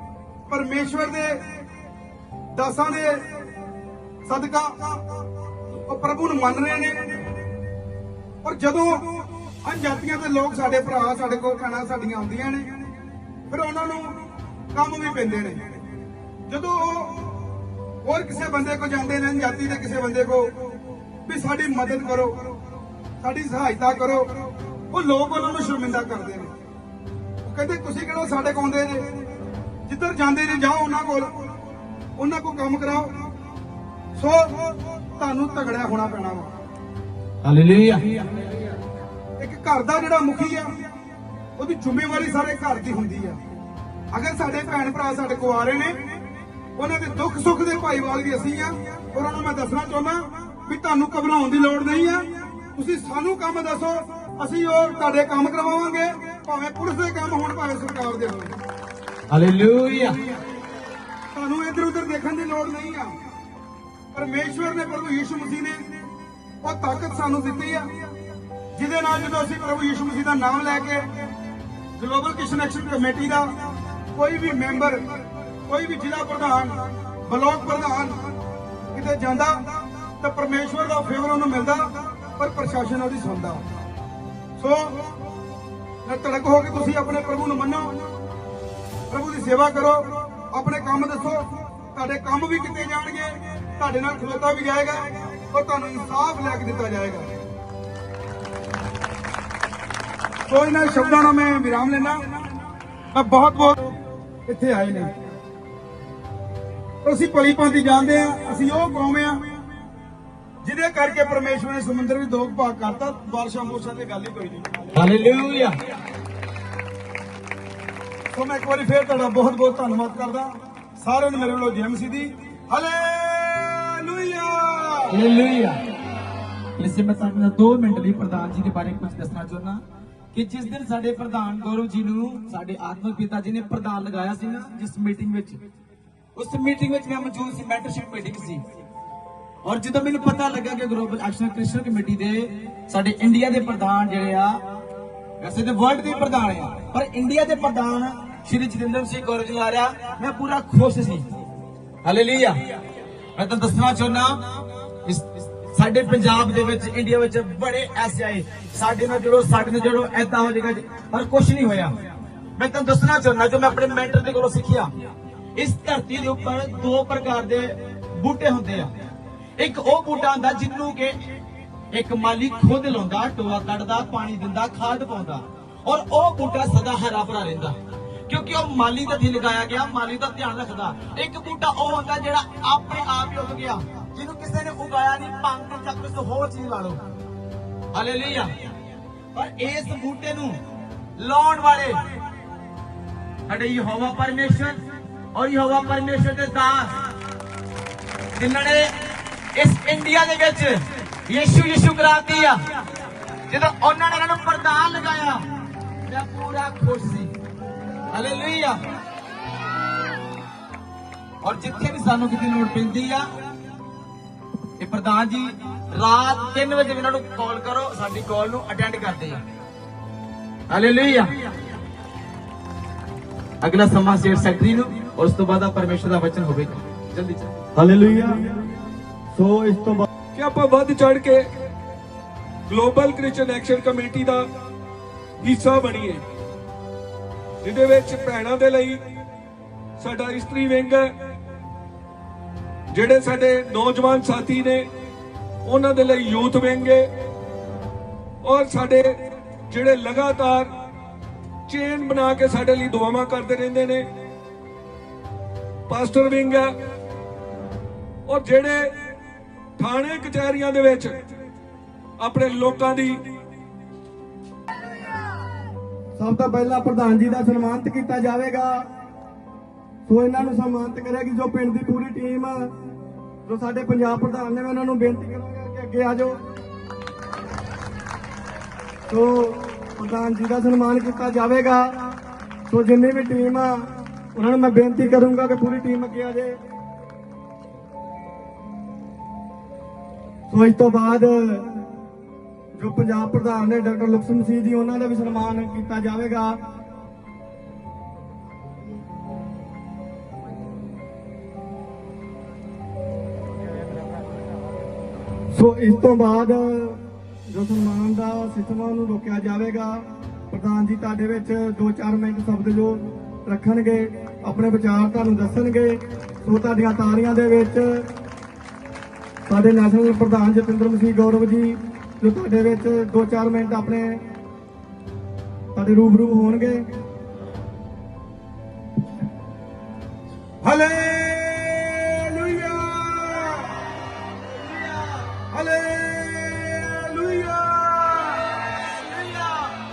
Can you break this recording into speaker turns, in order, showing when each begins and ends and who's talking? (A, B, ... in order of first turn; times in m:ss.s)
0:00.5-0:01.4 A
0:02.5-0:03.3 A
0:04.2-0:05.0 A
0:05.9-0:07.2 A
0:08.4-0:12.7 A
0:13.5-0:14.2 A
0:14.7-0:15.6 A
0:16.5-0:17.3 A
0:18.0-0:20.6 A
0:21.3-0:22.5 A
0:23.2-0:26.5 A
0:27.4-0:29.1 A
0:29.9-0:31.4 A
0:32.2-0:33.2 A
0:34.2-0:36.5 A
0:37.4-0:38.0 B
0:39.4-0:40.7 A
0:41.6-0:43.4 A
0:44.1-0:46.0 A
0:46.8-0:58.6 A
0:59.3-1:00.2 B
1:01.3-1:03.1 A
1:04.1-1:05.8 A
1:06.6-1:07.9 A
1:08.8-1:11.1 A
1:12.0-1:13.5 A
1:14.2-1:18.3 A
1:18.9-1:23.6 A
1:24.6-1:25.0 A
1:26.0-1:28.0 A
1:29.1-1:37.3 A
1:40.5-1:42.2 A
1:43.1-1:45.1 A
1:47.0-1:49.4 A
1:50.6-1:54.7 A
1:54.9-1:55.7 B
1:58.3-2:05.2 A
2:05.1-2:05.8 B
2:06.8-2:09.8 B
2:10.3-2:15.6 B
2:16.4-2:18.6 B
2:19.6-2:24.6 B
2:25.4-2:31.3 B
2:32.0-2:32.6 B
2:33.4-2:34.4 B
2:35.0-2:42.0 B
2:42.6-2:44.9 B
2:45.6-2:48.9 B
2:49.6-2:51.2 B
2:51.9-2:57.8 B
2:58.3-3:07.0 B
3:07.9-3:08.6 B
3:09.3-3:10.6 B
3:11.2-3:12.0 B
3:13.5-3:14.8 B
3:15.3-3:17.0 B
3:18.4-3:18.9 B
3:19.6-3:22.8 B
3:23.5-3:25.4 B
3:26.1-3:27.3 B
3:28.1-3:28.8 B
3:31.4-3:33.2 B
3:34.8-3:39.4 B
3:40.7-3:41.5 B
3:43.6-3:47.5 B
3:47.8-3:48.5 C
3:49.3-3:50.1 C
3:50.4-3:51.4 D
3:52.7-3:54.4 D
3:55.4-3:56.2 D
3:57.6-3:59.0 D
4:00.0-4:01.1 D
4:02.9-4:04.8 D
4:05.7-4:07.1 D
4:08.4-4:09.2 D
4:09.7-4:10.7 D
4:11.7-4:14.0 D
4:15.9-4:16.7 D
4:18.3-4:18.9 D
4:19.8-4:21.2 D
4:22.2-4:23.2 D
4:26.2-4:28.8 C
4:30.1-4:32.7 C
4:33.4-4:36.4 C
4:39.1-4:42.1 C
4:42.7-4:43.8 C
4:44.3-4:46.6 C
4:50.5-4:51.9 C
4:52.7-4:56.6 C
5:05.5-5:18.1 C
5:19.5-5:24.2 C
5:25.8-5:26.9 C
5:30.6-5:33.7 A
5:34.6-5:35.2 B
5:35.5-5:38.4 A
5:38.9-5:39.7 B